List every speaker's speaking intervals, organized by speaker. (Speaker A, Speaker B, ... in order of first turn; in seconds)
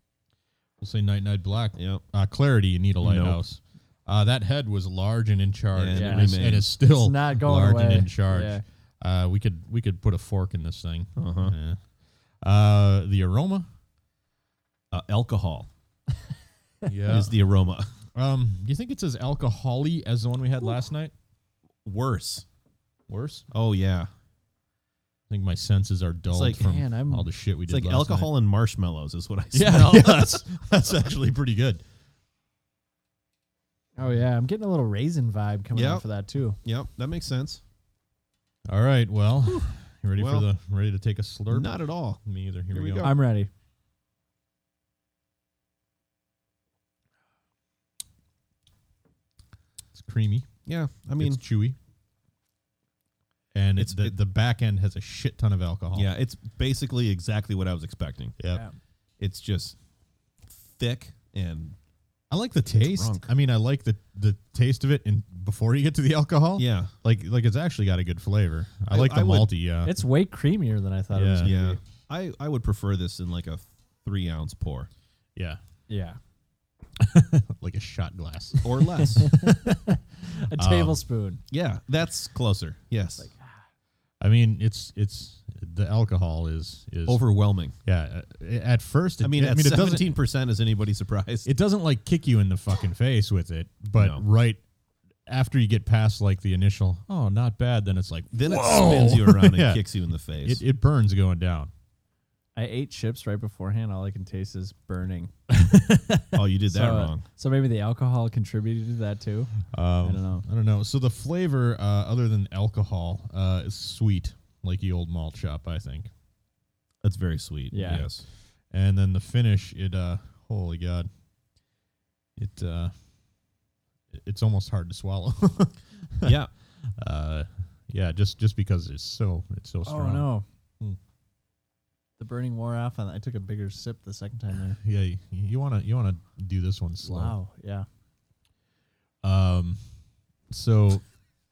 Speaker A: 0.8-11.8, 12.4-13.7, 16.9-17.3, 18.1-21.1, 23.1-23.4, 25.3-28.3, 29.5-31.8, 38.7-43.1, 49.9-50.5, 51.2-51.8, 53.5-56.1, 58.4-58.6, 62.3-69.9, 71.1-71.5, 77.0-79.9, 80.6-81.0, 84.2-87.3, 87.8-90.1, 91.4-94.6, 95.3-99.8, 100.4-101.7, 105.5-106.3, 109.7-116.1, 117.8-118.1, 118.7-121.1, 122.4-122.9, 124.1-126.4, 127.0-131.0, 134.8-137.3, 139.2-139.9, 140.5-141.0
Speaker B: 1.8-2.0, 3.0-3.4, 5.7-6.7, 11.2-11.6, 14.9-15.7, 17.1-17.9, 21.9-22.4, 23.5-24.1, 26.3-26.6, 27.7-31.2, 35.7-36.0, 36.6-37.6, 40.1-40.5, 41.5-43.2, 50.6-51.4, 53.8-54.1, 55.9-58.4, 59.2-59.8, 60.5-61.8, 62.7-63.3, 66.6-66.9, 68.9-69.5, 71.4-74.9, 78.6-79.4, 81.5-83.3, 87.1-87.8, 89.2-91.5, 94.0-94.2, 98.3-100.6, 106.3-107.2, 117.0-118.2, 126.2-126.5
Speaker C: 5.9-8.6, 26.6-27.3, 34.0-36.6, 43.0-43.5, 69.8-71.8, 75.9-76.2, 80.4-81.4, 83.2-83.6, 102.5-105.3, 106.7-110.4, 117.7-118.1, 129.9-130.4, 132.2-134.8, 137.0-137.9